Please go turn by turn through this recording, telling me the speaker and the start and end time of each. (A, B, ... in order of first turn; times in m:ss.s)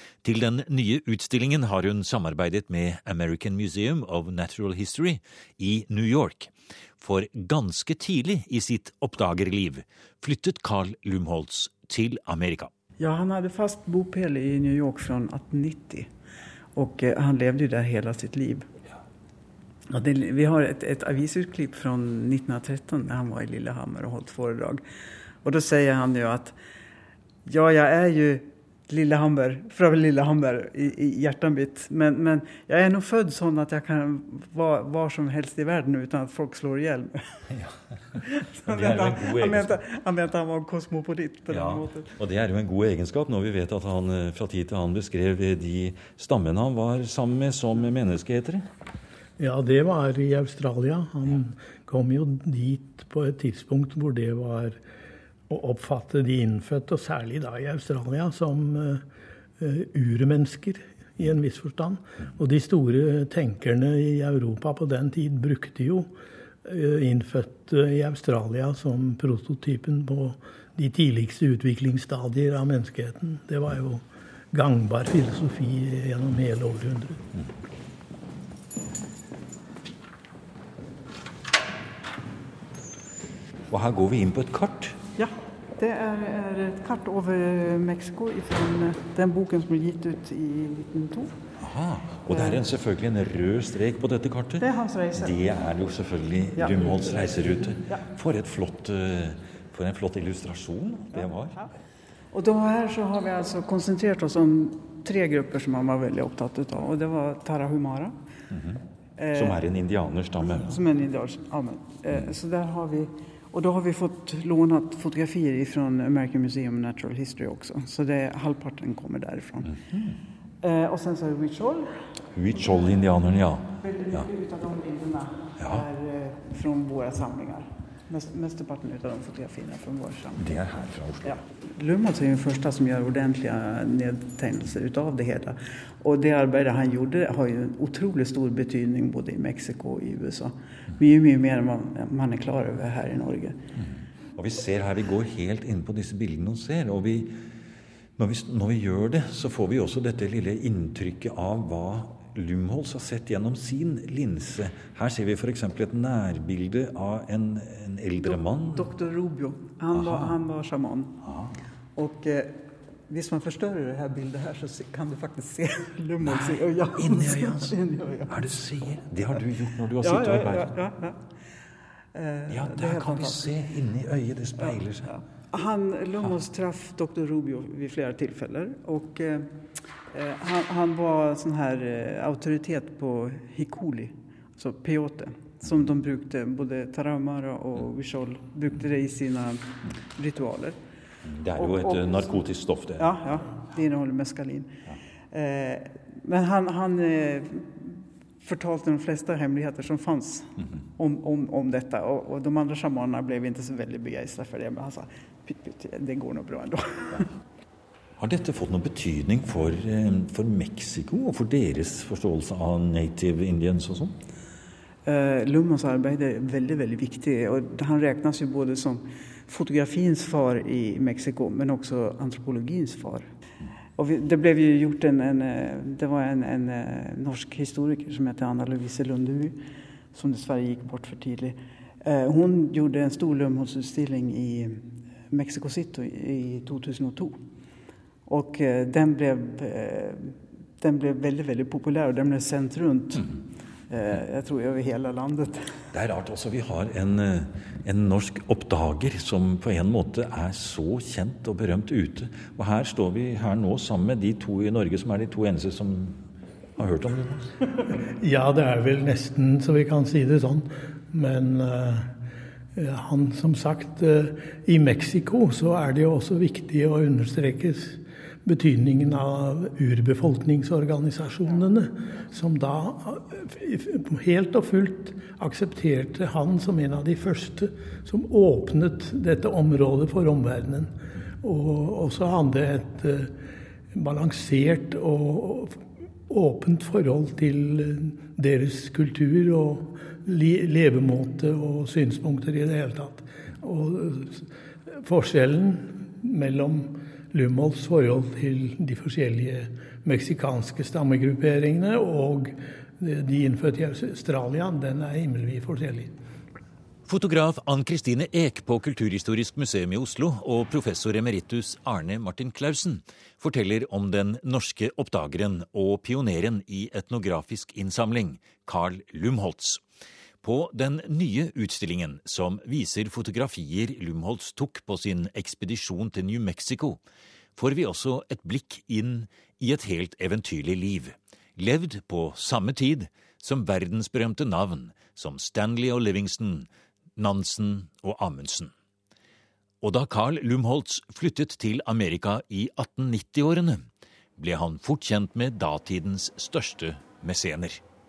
0:00.2-0:12.7 A
0:13.0-0:16.1 B
0:16.7-0:18.7 B
0:19.9-0:24.8 B
0:25.4-0:26.5 B
0:27.4-0:37.4 B
0:37.5-0:39.7 A
0:38.2-0:42.1 B
0:41.5-0:48.6 A
0:49.4-0:54.8 C
0:55.5-0:59.0 C
0:59.6-1:06.1 C
1:06.6-1:17.2 C
1:23.7-1:25.0 A
1:25.2-1:31.3 B
1:31.6-1:41.7 A
1:32.3-1:32.6 B
1:34.6-1:35.4 B
1:36.6-1:38.0 B
1:42.3-1:48.2 B
1:48.5-1:48.8 A
1:49.2-1:49.6 B
1:49.3-1:50.8 A
1:50.4-1:59.8 B
1:59.7-2:00.2 A
2:00.6-2:02.0 B
2:02.3-2:04.3 A
2:03.8-2:10.4 B
2:05.6-2:05.8 A
2:10.4-2:11.4 A
2:11.2-2:23.6 B
2:24.4-2:27.4 A
2:28.2-2:38.9 A
2:38.2-2:41.2 B
2:39.9-2:40.3 A
2:41.2-2:41.6 A
2:42.0-2:48.4 B
2:46.2-2:47.7 A
2:48.3-2:50.7 A
2:50.0-2:51.2 B
2:52.1-2:53.6 B
2:52.5-2:55.1 A
2:54.6-2:59.5 B
3:00.1-3:10.8 B
3:11.2-3:13.2 A
3:11.6-3:12.4 B
3:13.0-3:14.7 B
3:15.3-3:27.3 B
3:28.2-3:34.2 A
3:35.0-3:43.2 B
3:44.0-3:49.6 B
3:50.1-3:57.4 B
3:58.3-4:03.3 B
4:03.9-4:05.7 B
4:05.9-4:16.2 A
4:16.8-4:17.5 A
4:18.0-4:22.1 C
4:22.7-4:43.4 C
4:43.9-5:06.1 C
5:07.0-5:19.8 A
5:20.4-5:27.0 A
5:27.6-5:38.7 A
5:39.8-5:43.8 A
5:44.4-5:47.8 A